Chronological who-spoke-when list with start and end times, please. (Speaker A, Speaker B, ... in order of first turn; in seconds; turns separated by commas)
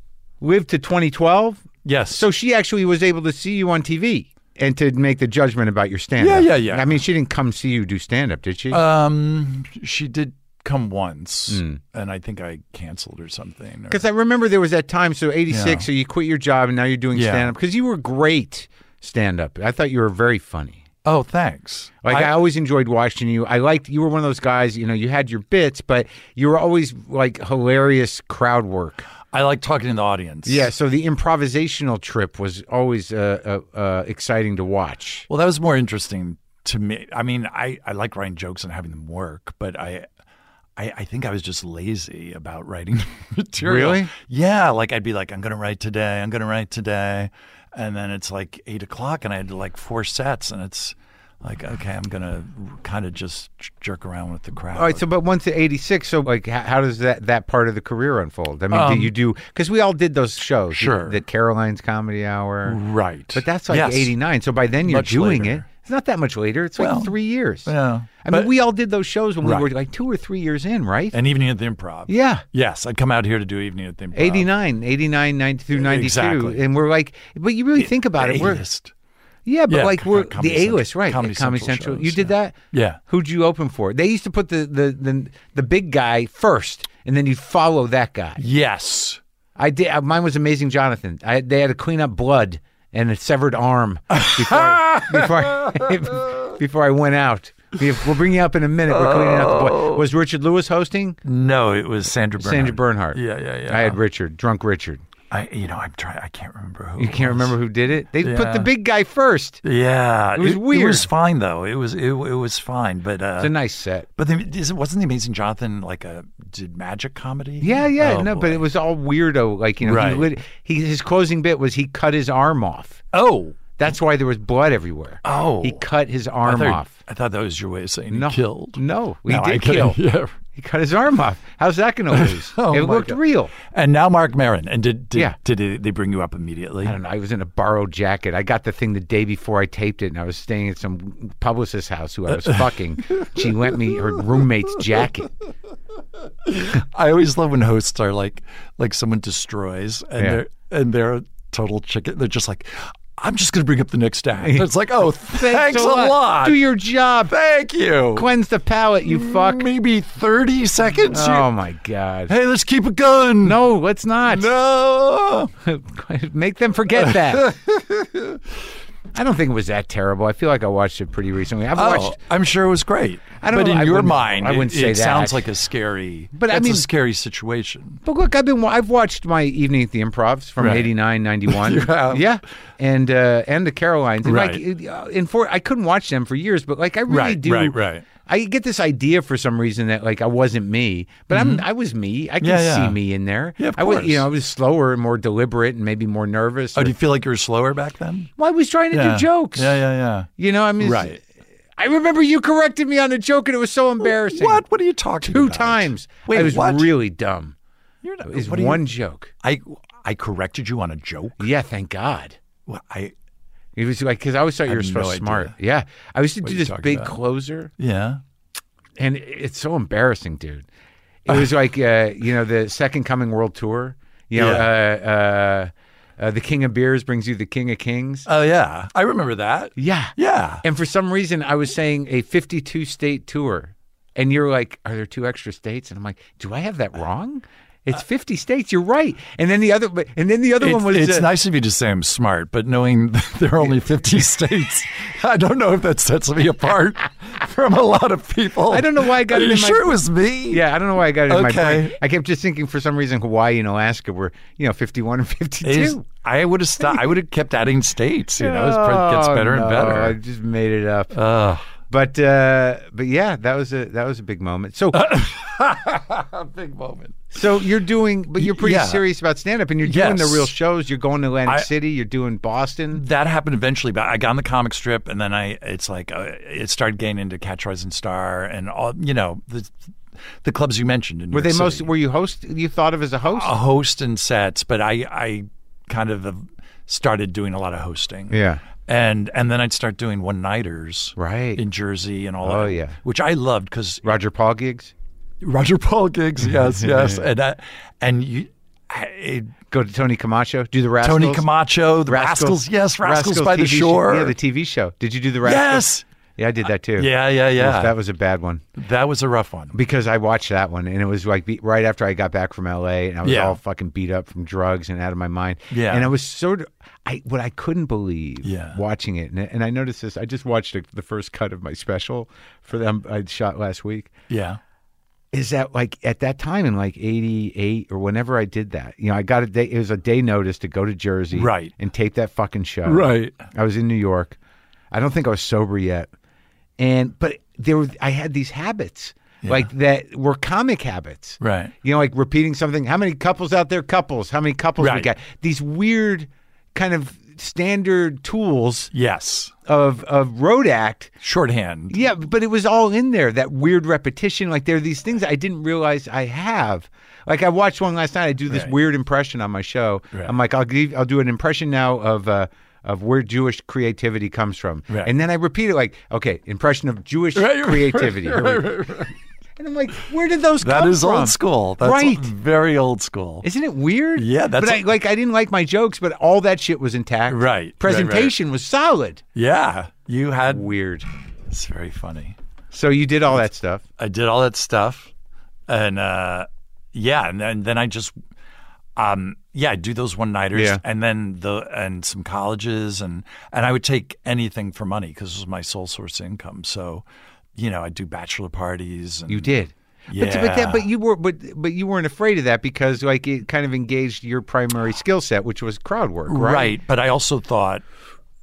Speaker A: 0.4-8.8, Speaker B: 1.8-2.2, Speaker B: 6.2-7.0, Speaker B: 8.7-14.0, Speaker A: 11.5-11.8, Speaker A: 13.9-20.8, Speaker B: 15.5-15.9, Speaker B: 17.1-17.5, Speaker B: 21.1-22.3, Speaker A: 22.0-29.1, Speaker B: 29.3-30.7, Speaker A: 30.5-35.3, Speaker B: 35.3-40.1, Speaker B: 40.8-55.0, Speaker A: 43.6-44.1, Speaker A: 54.7-62.8, Speaker B: 58.7-59.1, Speaker B: 60.7-61.2, Speaker B: 62.6-64.1, Speaker A: 63.3-67.7, Speaker B: 64.8-65.7, Speaker B: 66.8-67.1, Speaker B: 67.7-68.5, Speaker A: 68.2-71.2, Speaker B: 69.4-69.7, Speaker B: 71.1-74.5, Speaker A: 72.1-72.4, Speaker A: 74.1-78.6, Speaker B: 75.7-76.6, Speaker B: 77.8-78.9, Speaker A: 79.5-82.5, Speaker B: 79.7-83.0, Speaker A: 83.1-88.4, Speaker B: 88.4-89.2, Speaker A: 89.6-101.2, Speaker B: 94.2-96.0, Speaker B: 98.9-100.0, Speaker B: 101.2-104.0, Speaker A: 102.4-105.0, Speaker B: 105.3-107.6, Speaker A: 107.0-109.6, Speaker B: 108.2-108.7, Speaker B: 109.6-113.5, Speaker A: 110.4-111.1, Speaker A: 113.4-114.1, Speaker B: 114.2-118.6, Speaker A: 117.6-123.0, Speaker B: 119.8-120.3, Speaker B: 123.1-123.6, Speaker A: 123.8-126.9, Speaker B: 125.2-125.8, Speaker B: 126.4-130.4, Speaker A: 128.1-130.0, Speaker A: 130.5-133.6, Speaker B: 132.1-137.0, Speaker A: 136.8-145.3, Speaker B: 142.3-145.1, Speaker B: 146.4-156.7, Speaker A: 155.2-157.3, Speaker B: 157.3-158.3, Speaker A: 158.2-159.7, Speaker B: 159.1-161.5, Speaker A: 161.1-162.3, Speaker B: 162.3-163.6, Speaker A: 163.4-164.5, Speaker B: 164.2-165.5, Speaker A: 165.6-167.6, Speaker B: 167.0-168.4, Speaker A: 169.1-172.2, Speaker B: 171.7-178.0, Speaker A: 173.4-175.4, Speaker A: 176.3-176.9, Speaker A: 178.0-196.9, Speaker B: 180.6-180.9, Speaker B: 181.4-182.3, Speaker B: 184.2-184.6, Speaker B: 187.1-188.1, Speaker B: 191.3-191.7, Speaker B: 192.4-193.0, Speaker B: 193.6-194.3, Speaker B: 196.8-198.3, Speaker A: 198.4-199.8, Speaker B: 198.9-200.3, Speaker A: 200.4-201.2, Speaker B: 200.8-201.2, Speaker A: 201.8-204.6, Speaker B: 204.0-206.9, Speaker A: 205.2-207.6, Speaker B: 208.0-208.9, Speaker A: 208.2-209.3, Speaker B: 209.4-211.5, Speaker A: 211.4-212.4, Speaker B: 212.7-213.2, Speaker A: 213.8-217.7, Speaker B: 214.7-215.6, Speaker B: 216.4-217.2, Speaker B: 217.8-218.2, Speaker A: 219.0-220.7, Speaker A: 221.2-228.3, Speaker B: 224.3-224.7, Speaker B: 228.3-230.6, Speaker A: 229.8-241.3, Speaker B: 240.6-250.7, Speaker A: 248.7-250.0, Speaker A: 250.5-256.0, Speaker B: 251.3-252.0, Speaker B: 255.6-260.2, Speaker A: 258.4-261.2, Speaker B: 261.1-261.7, Speaker A: 261.9-265.1, Speaker B: 264.9-267.3, Speaker A: 267.3-273.0, Speaker B: 268.4-269.0, Speaker B: 269.8-270.5, Speaker B: 272.9-281.9, Speaker A: 281.3-283.5, Speaker B: 283.3-294.1, Speaker A: 288.3-288.6, Speaker A: 291.2-291.6, Speaker A: 292.4-293.0, Speaker A: 294.0-294.9, Speaker B: 295.4-299.6, Speaker A: 296.8-297.2, Speaker A: 299.7-301.4, Speaker B: 301.0-304.4, Speaker A: 302.1-308.6, Speaker B: 305.4-306.1, Speaker B: 307.0-308.0, Speaker B: 308.8-309.7, Speaker A: 309.7-324.1, Speaker B: 313.2-313.6, Speaker B: 315.7-316.1, Speaker B: 318.4-318.8, Speaker B: 324.3-324.6, Speaker A: 325.3-334.4, Speaker B: 331.3-331.7, Speaker B: 332.9-333.4, Speaker A: 334.9-336.1, Speaker A: 336.8-348.9, Speaker B: 339.4-339.7, Speaker B: 341.4-341.7, Speaker B: 344.8-345.1, Speaker B: 348.9-349.5, Speaker A: 349.7-351.1, Speaker B: 351.2-352.0, Speaker A: 351.9-369.0, Speaker B: 358.5-358.7, Speaker B: 367.4-369.1, Speaker A: 369.6-372.3, Speaker B: 370.6-373.5, Speaker A: 373.4-379.2, Speaker B: 374.2-374.9, Speaker B: 377.3-378.4, Speaker B: 379.4-380.7, Speaker A: 380.5-381.1, Speaker B: 381.5-382.4, Speaker A: 382.7-383.8, Speaker B: 384.0-385.1, Speaker B: 385.7-388.1, Speaker B: 389.0-399.6, Speaker A: 390.6-390.8, Speaker A: 399.3-406.8, Speaker B: 400.1-400.9, Speaker B: 406.3-407.8